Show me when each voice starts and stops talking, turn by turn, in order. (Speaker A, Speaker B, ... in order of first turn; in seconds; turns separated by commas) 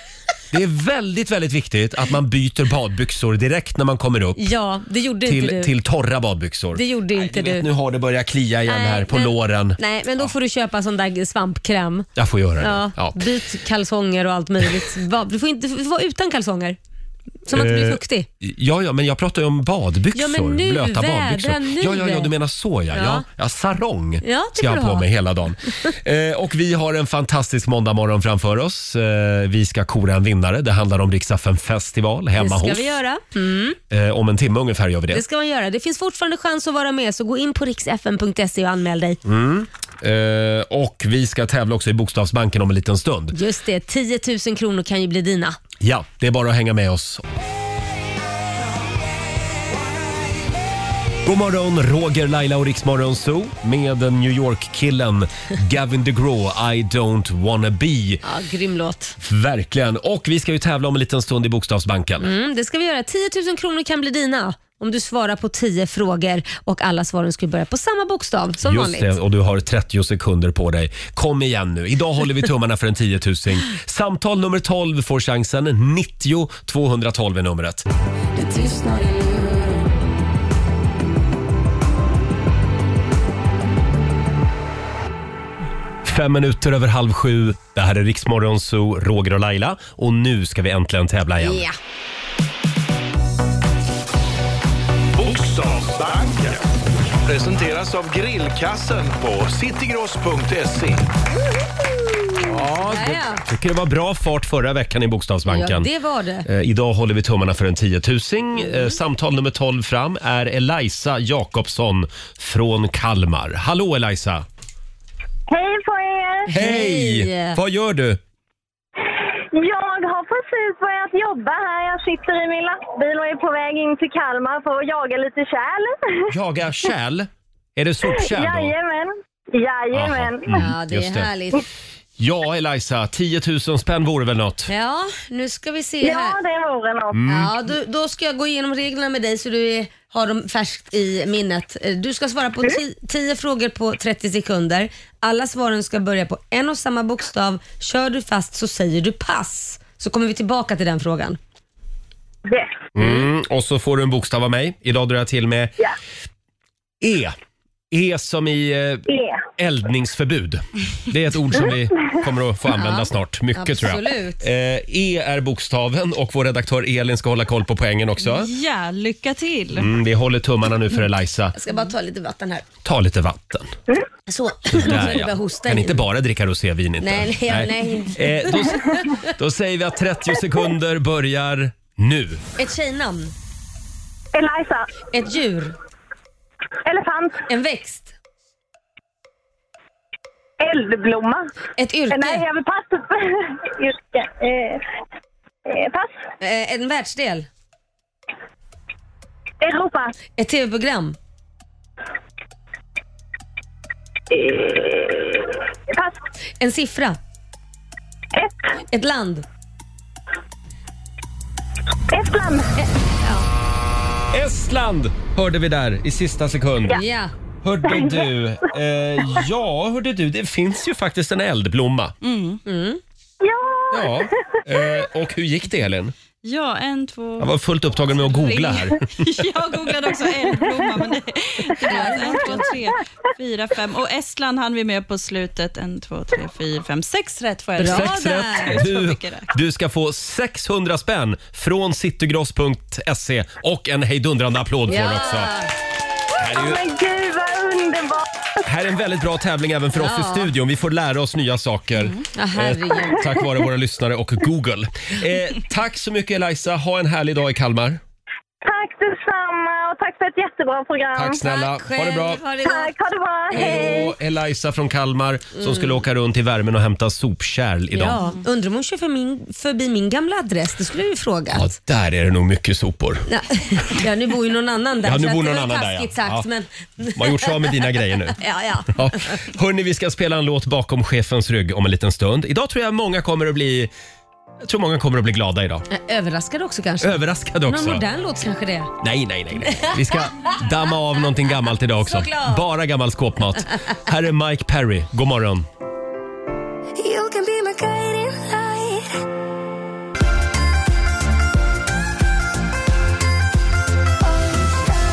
Speaker A: 0.5-4.4, Speaker B: 4.4-5.7, Speaker A: 5.2-9.8, Speaker B: 6.7-7.7, Speaker B: 8.7-12.1, Speaker A: 12.2-13.2, Speaker B: 12.6-16.8, Speaker B: 17.4-18.2, Speaker A: 17.5-33.0, Speaker B: 20.1-22.3, Speaker B: 22.9-23.2, Speaker B: 24.2-25.1, Speaker B: 32.4-33.8, Speaker A: 33.9-35.2, Speaker B: 35.1-39.2, Speaker A: 39.2-43.3, Speaker B: 43.3-45.6, Speaker A: 45.8-47.3, Speaker A: 51.2-58.2, Speaker B: 58.2-59.1, Speaker A: 59.2-62.3, Speaker B: 62.2-69.1, Speaker A: 68.6-77.8, Speaker C: 78.3-79.7, Speaker A: 86.0-91.7, Speaker B: 91.4-91.8, Speaker D: 95.2-96.6, Speaker D: 97.2-101.1, Speaker B: 102.4-103.4, Speaker A: 102.4-105.9, Speaker B: 105.5-106.5, Speaker A: 106.4-114.4, Speaker B: 108.6-108.9, Speaker E: 115.5-116.4, Speaker B: 116.5-117.6, Speaker A: 116.5-118.2, Speaker E: 119.5-126.2, Speaker A: 126.3-128.7, Speaker E: 128.0-130.5, Speaker A: 129.9-131.3, Speaker B: 130.5-131.6, Speaker A: 132.2-134.7, Speaker B: 134.7-136.4, Speaker E: 136.0-137.2, Speaker A: 137.1-137.5, Speaker B: 137.3-151.4, Speaker E: 152.5-152.8, Speaker A: 152.9-155.7, Speaker B: 153.0-153.2, Speaker A: 157.0-157.3, Speaker A: 157.9-159.0, Speaker E: 159.1-159.4, Speaker A: 159.6-168.5, Speaker B: 162.7-164.4, Speaker F: 168.2-169.9, Speaker A: 169.8-171.5, Speaker B: 171.5-172.7, Speaker A: 172.8-173.7, Speaker B: 174.3-176.0, Speaker A: 174.7-182.4, Speaker B: 177.0-179.1, Speaker B: 182.6-183.3, Speaker E: 184.3-184.8, Speaker B: 185.1-185.7, Speaker E: 186.8-187.4, Speaker B: 187.5-188.1, Speaker E: 190.6-191.5, Speaker B: 191.8-192.4, Speaker E: 192.1-194.8, Speaker E: 195.7-196.1, Speaker B: 196.4-197.5, Speaker E: 199.6-200.1, Speaker B: 200.4-201.2, Speaker E: 204.3-206.2, Speaker B: 206.6-207.2, Speaker B: 208.9-209.4, Speaker E: 212.1-212.7, Speaker A: 214.3-217.0, Speaker B: 216.9-217.3, Speaker A: 217.6-222.1, Speaker E: 217.9-218.2, Speaker F: 222.2-222.6, Speaker B: 222.6-223.0, Speaker E: 223.4-224.3, Speaker A: 223.9-226.1, Speaker F: 226.4-239.5, Speaker A: 227.4-229.4, Speaker B: 231.9-232.7, Speaker B: 237.8-238.8, Speaker A: 237.8-245.5, Speaker B: 244.9-245.7, Speaker E: 246.3-248.2, Speaker A: 246.4-246.8, Speaker A: 248.6-258.0, Speaker B: 249.9-250.5, Speaker B: 252.3-253.3, Speaker E: 258.6-261.4, Speaker A: 261.1-262.4, Speaker B: 261.4-262.9, Speaker E: 262.6-264.1, Speaker A: 263.5-268.2, Speaker B: 265.6-266.0, Speaker B: 267.9-271.7, Speaker A: 271.5-273.2, Speaker B: 273.3-277.7, Speaker A: 275.0-276.4, Speaker A: 277.1-278.4, Speaker B: 278.4-279.3, Speaker A: 278.9-283.9, Speaker A: 284.6-285.9, Speaker B: 285.9-288.9, Speaker A: 287.0-288.0, Speaker A: 289.0-295.6, Speaker B: 289.6-290.6, Speaker B: 292.0-292.6, Speaker C: 297.0-299.0